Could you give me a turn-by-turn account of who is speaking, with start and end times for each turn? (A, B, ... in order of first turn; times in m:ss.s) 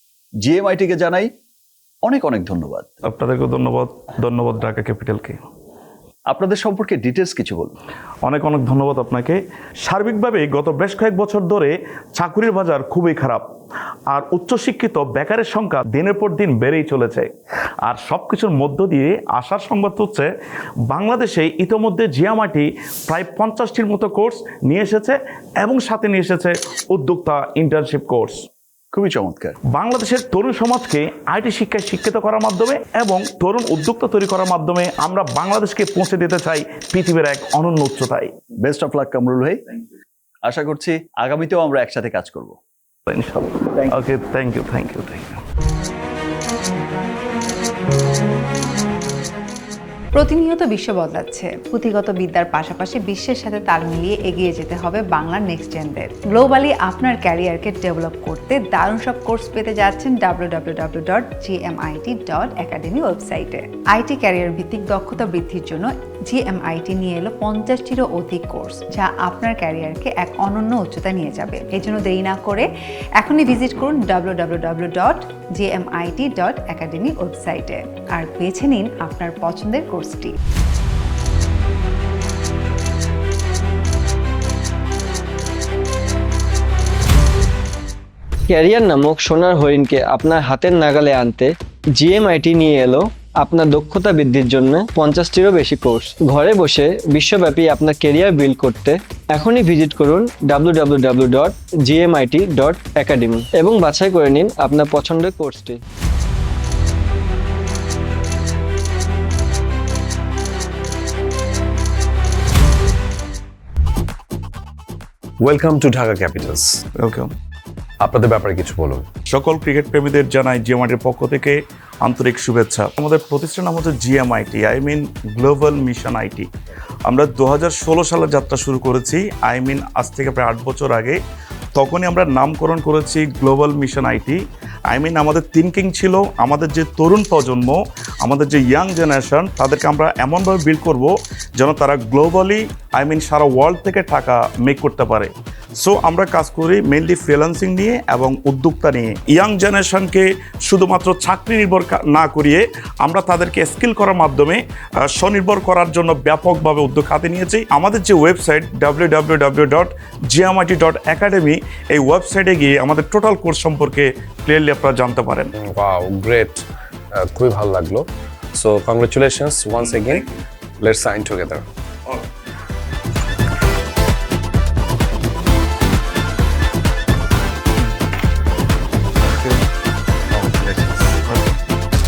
0:00.4-0:01.3 A
0:02.1-0:02.9 A
0:03.0-0:05.4 B
0:06.3-0:07.7 A
0:08.2-0:13.4 B
0:14.1-0:17.3 B
0:17.9-0:20.3 B
0:20.9-0:28.4 B
0:28.9-0:29.6 A
0:29.7-0:38.3 B
0:38.6-0:39.6 A
0:40.4-0:42.6 A
0:43.1-0:45.4 B
0:50.1-1:12.7 C
1:13.2-1:20.4 C
1:28.5-1:45.8 D
1:55.4-1:56.8 E
1:57.0-1:57.3 B
1:58.0-1:59.1 E
1:59.3-2:06.5 B
2:07.1-2:11.2 B
2:11.8-2:45.5 B
2:45.6-2:46.6 E
2:47.2-2:50.3 E
2:49.8-2:50.2 B
2:50.8-2:51.6 E